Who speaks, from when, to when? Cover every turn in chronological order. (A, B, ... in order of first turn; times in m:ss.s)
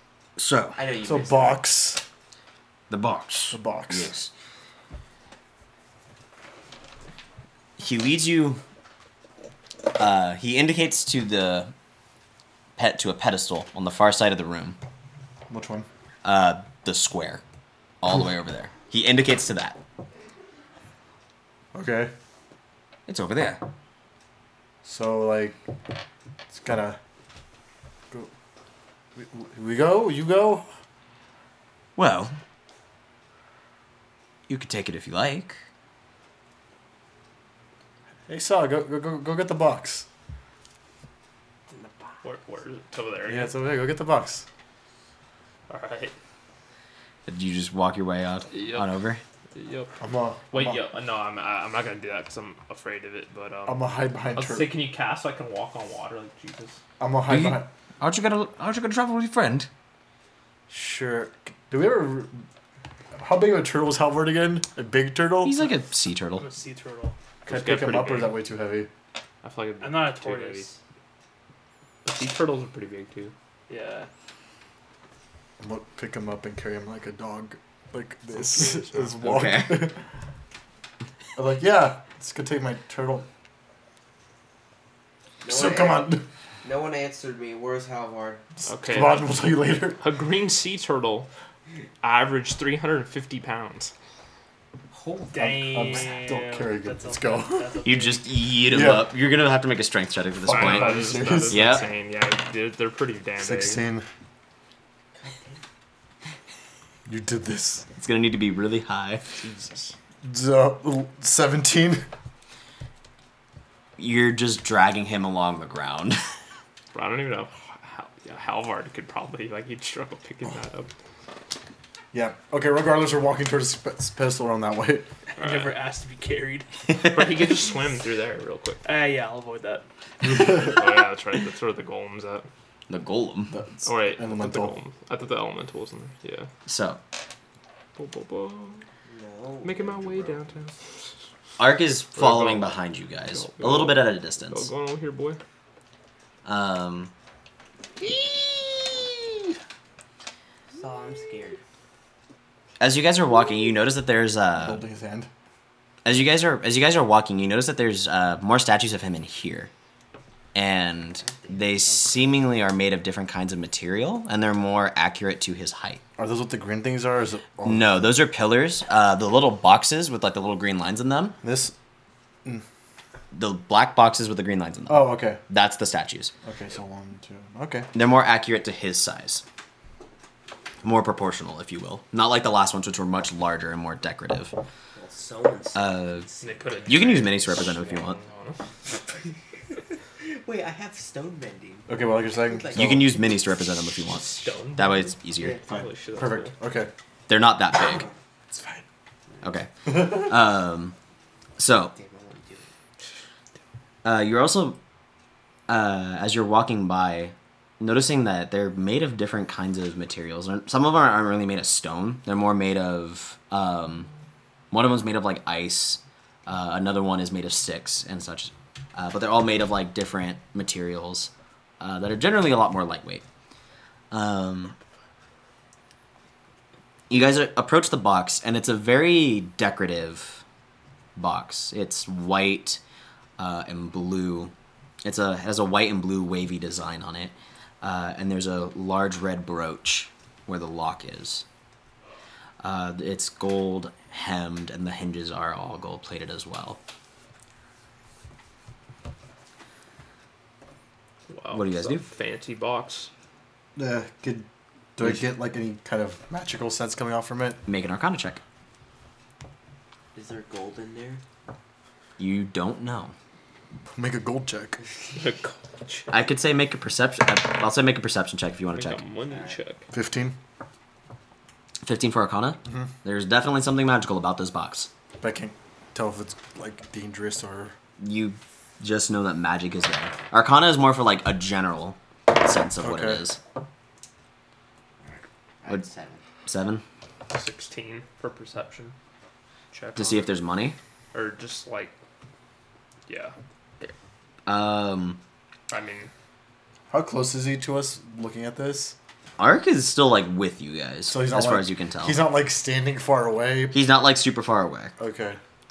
0:00.4-0:00.8 A
0:00.8-0:01.6 B
0:01.0-0:02.0 C
0:02.9-0:04.3 A
0:03.5-0:04.1 C
0:07.8-0:08.6 A
0:09.9-0:11.7 A
0:12.8-0:14.8 A
0:15.5-0:15.9 C
0:16.2-0:17.4 A
0:18.0-0:19.8 A
0:21.7-0:22.1 C
0:23.1-0:23.6 A
0:24.8-0:25.6 C
0:26.5-0:27.0 C
0:29.2-0:30.6 C
0:32.0-0:32.4 A
0:34.5-0:35.6 A
0:38.3-0:40.0 C
0:42.2-0:43.5 D
0:43.2-0:44.4 C
0:45.7-0:46.1 D
0:47.3-0:49.2 A
0:48.5-0:49.0 D
0:49.5-0:49.9 D
0:50.0-0:50.8 C
0:50.5-0:56.8 D
0:53.6-0:54.7 C
0:57.0-0:57.7 C
0:57.3-0:59.7 A
1:00.7-1:02.4 C
1:03.2-1:05.6 C
1:05.4-1:06.4 A
1:06.4-1:07.2 E
1:07.4-1:08.9 C
1:07.4-1:08.4 D
1:09.4-1:10.7 D
1:09.8-1:10.8 E
1:12.0-1:13.3 D
1:13.7-1:14.1 E
1:15.6-1:20.0 C
1:19.2-1:19.9 A
1:21.4-1:23.3 C
1:25.4-1:28.4 B
1:25.4-1:26.3 C
1:28.6-1:30.0 C
1:28.6-1:29.3 D
1:30.0-1:31.3 D
1:32.0-1:33.9 D
1:34.9-1:36.2 B
1:35.3-1:38.2 E
1:35.3-1:37.8 C
1:37.8-1:41.9 A
1:38.7-1:39.1 C
1:40.4-1:41.8 C
1:40.4-1:43.8 D
1:43.4-1:44.0 C
1:45.2-1:45.6 B
1:47.1-1:47.8 C
1:48.0-1:49.2 A
1:49.4-1:49.9 D
1:50.2-1:52.1 C
1:54.0-1:56.2 A
1:56.9-2:00.9 D
2:02.1-2:05.1 C
2:05.4-2:06.7 E
2:05.4-2:05.7 D
2:06.9-2:08.8 D
2:08.8-2:09.8 E
2:10.2-2:12.5 D
2:12.9-2:13.6 A
2:13.5-2:14.8 C
2:13.8-2:16.5 D
2:16.6-2:17.0 A
2:18.0-2:18.8 D
2:19.1-2:20.5 B
2:19.6-2:20.9 D
2:21.6-2:24.7 A
2:22.2-2:25.4 D
2:26.4-2:27.1 A
2:30.7-2:31.6 B
2:32.8-2:34.8 A
2:34.6-2:35.3 C
2:36.0-2:39.7 A
2:40.5-2:46.0 A
2:41.2-2:42.4 B
2:46.2-2:48.1 C
2:47.6-2:51.4 A
2:51.4-2:51.7 C
2:53.3-2:56.3 A
2:54.9-2:55.4 C
2:56.4-2:57.9 C
2:57.9-2:59.4 A
3:00.8-3:04.5 A
3:04.9-3:07.9 B
3:05.7-3:06.3 A
3:06.4-3:08.6 D
3:06.8-3:08.2 A
3:10.2-3:13.2 B
3:11.9-3:13.1 C
3:12.7-3:15.6 A
3:14.1-3:16.5 D
3:15.4-3:15.7 B
3:15.7-3:16.9 C
3:17.3-3:18.1 A
3:18.5-3:18.8 C
3:19.4-3:21.0 A
3:21.6-3:21.9 A
3:21.9-3:22.7 B
3:24.0-3:24.8 A
3:25.7-3:34.1 A
3:34.7-3:43.2 A
3:44.1-3:44.8 A
3:47.1-3:50.4 A
3:51.2-3:52.8 A
3:53.4-3:54.5 A
3:55.0-4:01.4 A
4:02.6-4:06.8 A
4:11.3-4:13.1 D
4:11.5-4:12.0 A
4:13.8-4:17.6 C
4:17.7-4:18.4 A
4:20.1-4:21.2 B
4:22.2-4:23.1 A
4:23.9-4:24.8 C
4:25.1-4:26.1 D
4:26.1-4:29.0 A
4:28.7-4:29.8 D
4:29.3-4:29.6 B
4:29.9-4:30.4 C
4:31.8-4:34.9 A
4:35.2-4:37.7 C
4:38.0-4:43.4 A
4:42.8-4:43.2 C
4:45.0-4:46.2 B
4:46.4-4:46.8 A
4:47.3-4:48.9 D
4:49.7-4:50.3 D
4:49.9-4:50.8 A
4:51.1-4:51.9 D
4:53.1-4:53.3 D
4:54.4-4:55.2 A
4:55.7-4:56.1 D
4:56.9-4:59.0 C
4:59.4-5:02.2 A
5:01.1-5:03.8 C
5:03.7-5:04.9 A
5:05.0-5:05.4 C